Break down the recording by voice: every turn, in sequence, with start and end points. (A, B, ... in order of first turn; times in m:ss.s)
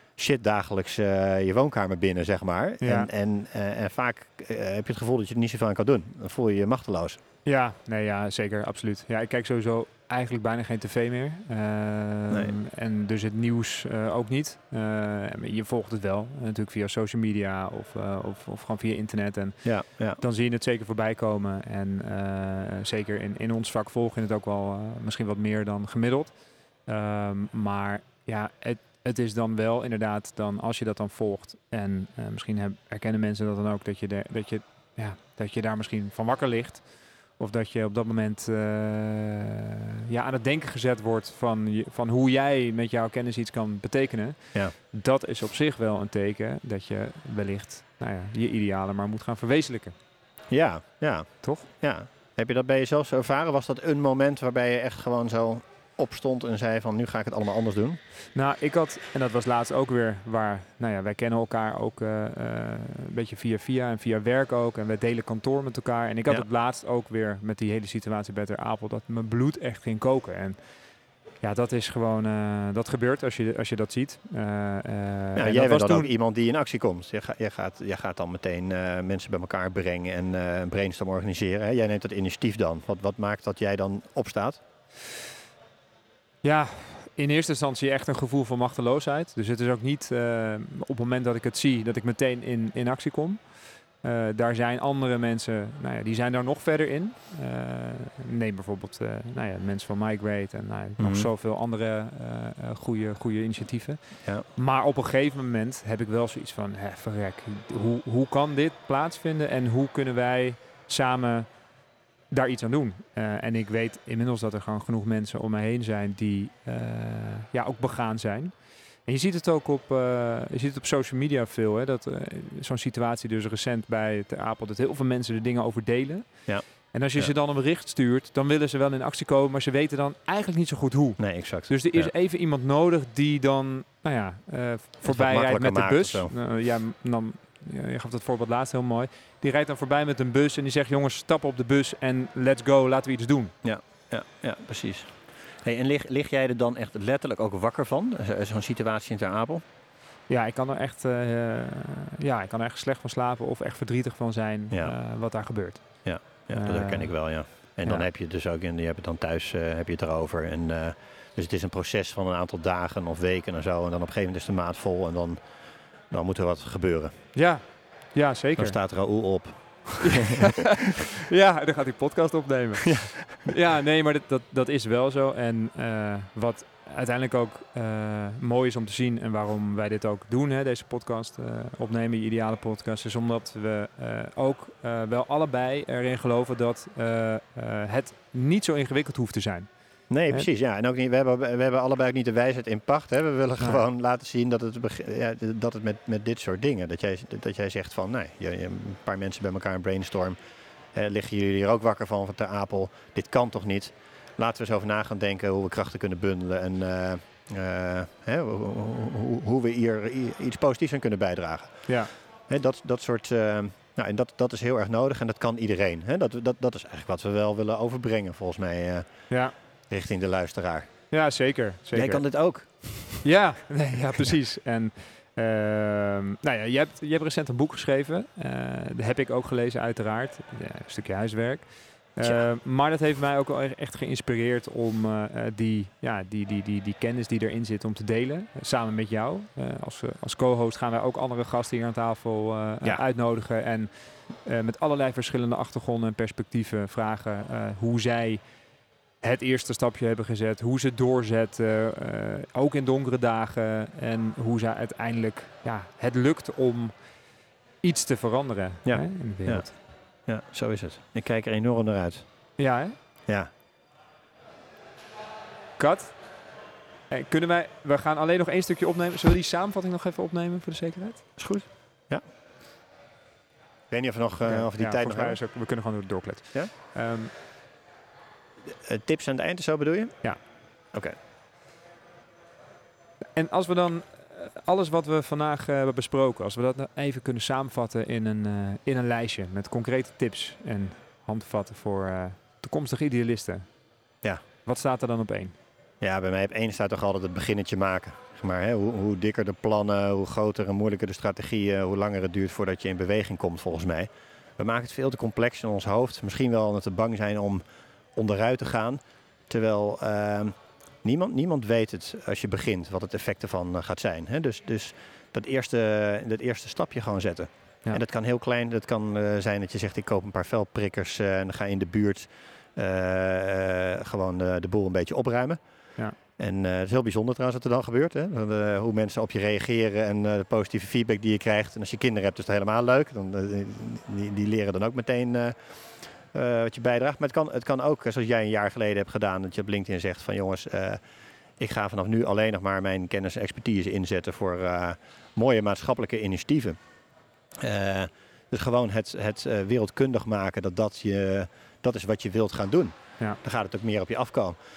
0:00.2-0:07.2 A
0:02.8-0:03.1 B
0:07.4-0:26.3 B
0:12.3-0:12.6 A
0:19.6-0:20.2 A
0:26.8-0:50.0 B
0:50.5-0:58.0 A
0:51.4-0:51.7 B
0:58.3-1:10.6 B
1:11.4-1:16.1 B
1:15.4-1:24.6 A
1:26.4-1:33.4 B
1:34.0-1:51.5 B
1:41.0-1:41.3 A
1:52.3-2:23.5 B
2:06.5-2:07.3 A
2:11.2-2:12.1 A
2:15.0-2:16.3 A
2:23.6-2:29.6 A
2:30.3-2:38.1 B
2:34.7-2:35.0 A
2:36.0-2:45.5 A
2:46.1-2:47.1 A
2:47.3-2:48.8 B
2:48.6-2:50.4 A
2:50.0-3:09.7 B
3:10.1-3:20.4 A
3:10.2-3:10.5 B
3:20.9-3:40.9 A
3:39.3-3:39.5 B
3:41.1-3:42.2 B
3:41.9-3:43.3 A
3:43.2-4:08.4 B
4:09.2-4:16.9 B
4:17.8-4:19.7 B
4:18.8-4:19.7 A
4:20.2-4:22.2 A
4:22.6-4:22.9 B
4:25.8-4:26.3 B
4:27.1-4:31.4 B
4:31.4-4:32.2 A
4:33.9-4:35.4 A
4:34.4-4:37.3 B
4:38.8-4:40.4 A
4:43.3-4:53.6 B
4:54.6-4:55.6 B
4:56.0-5:07.6 A
5:08.1-5:25.6 A
5:26.4-5:41.0 A
5:41.6-5:46.8 A
5:47.6-5:54.6 A